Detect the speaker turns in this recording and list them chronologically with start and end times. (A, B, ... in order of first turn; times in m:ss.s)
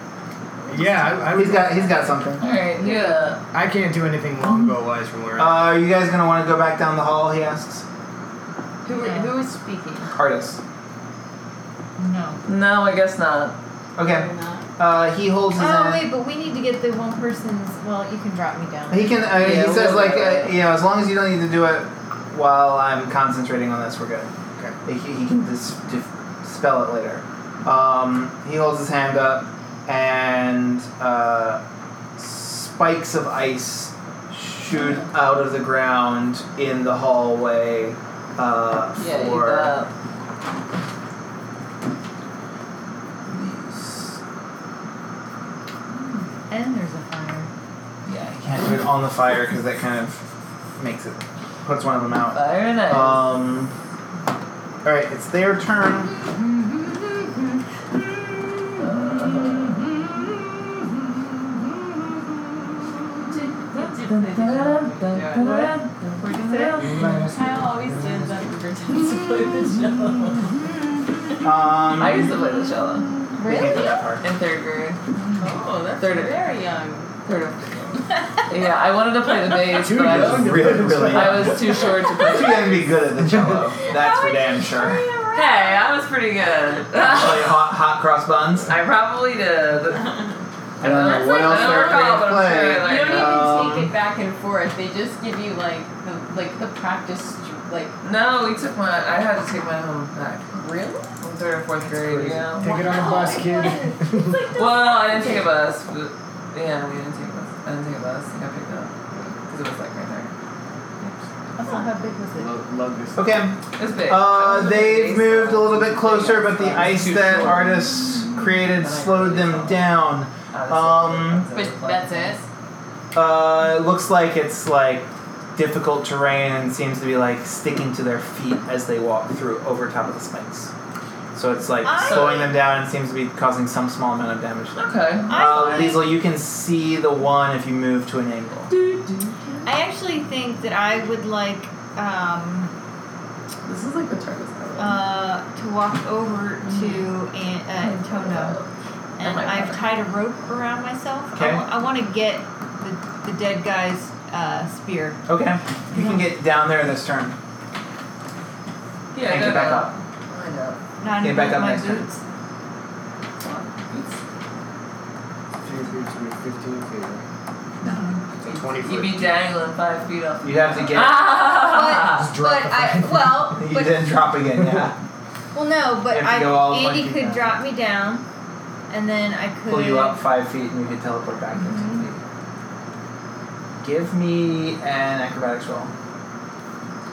0:00.7-0:01.9 A
0:01.3-0:02.4 B
0:02.4-0:03.4 C
0:02.8-0:03.4 D
0:03.5-0:05.8 A
0:05.4-0:07.8 B
0:08.8-0:10.1 D
0:08.9-0:09.3 E
0:10.1-0:10.6 B
0:12.0-0:12.4 E
0:12.4-0:13.6 C
0:14.0-0:16.1 B
0:14.0-0:14.6 D
0:15.6-0:19.3 E
0:18.9-0:24.3 B
0:19.4-0:20.5 C
0:24.8-0:31.6 B
0:32.2-0:39.8 B
0:39.0-0:39.9 C
0:43.3-0:44.2 B
0:46.5-0:47.5 E
0:48.1-0:48.4 C
0:48.4-0:50.2 B
0:50.8-0:53.7 B
0:52.3-0:53.4 C
0:54.8-0:56.1 B
0:56.3-0:57.4 E
0:58.7-1:00.3 E
0:58.8-0:59.9 C
1:03.2-1:05.7 D
1:03.8-1:07.2 C
1:05.4-1:07.1 E
1:06.8-1:08.5 A
1:07.2-1:10.6 D
1:11.4-1:12.4 B
1:12.0-1:15.0 C
1:12.2-1:14.0 E
1:13.4-1:14.3 B
1:13.5-1:13.9 D
1:15.2-1:15.4 E
1:15.4-1:17.2 D
1:16.0-1:16.4 C
1:17.2-1:17.7 C
1:18.5-1:22.9 C
1:19.7-1:21.9 A
1:20.0-1:25.1 B
1:23.2-1:23.7 A
1:23.9-1:25.9 D
1:25.3-1:27.6 C
1:27.0-1:28.7 B
1:28.6-1:30.1 C
1:30.8-1:33.5 C
1:30.8-1:33.9 B
1:31.0-1:32.2 D
1:32.8-1:37.9 D
1:38.0-1:40.6 C
1:40.5-1:41.1 D
1:41.2-1:42.7 C
1:41.8-1:44.4 A
1:42.7-1:44.0 E
1:42.7-1:45.5 D
1:44.5-1:48.9 C
1:49.5-1:50.3 C
1:51.6-1:52.5 E
1:52.4-1:53.5 A
1:53.2-2:01.5 B
1:53.8-1:59.9 C
2:00.5-2:02.4 C
2:01.5-2:02.5 D
2:03.1-2:10.7 B
2:11.3-2:18.7 B
2:11.8-2:12.6 E
2:14.8-2:16.0 C
2:15.3-2:16.2 E
2:18.7-2:19.7 C
2:19.6-2:22.7 E
2:23.7-2:25.0 C
2:24.8-2:28.6 E
2:26.6-2:27.1 C
2:27.8-2:28.7 C
2:29.2-2:35.2 E
2:29.2-2:30.0 C
2:31.3-2:31.7 B
2:35.3-2:37.4 B
2:35.9-2:36.2 E
2:39.1-2:40.8 C
2:39.2-2:39.9 B
2:41.0-2:42.2 E
2:41.2-2:42.1 B
2:43.4-2:44.2 C
2:45.6-2:47.3 A
2:47.8-2:48.2 E
2:48.4-2:49.3 A
2:48.8-2:52.3 C
2:50.4-2:51.2 B
2:51.1-2:54.1 E
2:52.1-2:53.6 A
2:53.6-2:55.0 B
2:54.6-2:54.8 A
2:55.5-2:58.2 E
2:56.1-2:57.5 B
2:58.9-3:00.2 E
2:59.7-3:02.2 B
3:01.6-3:02.1 E
3:03.8-3:05.9 B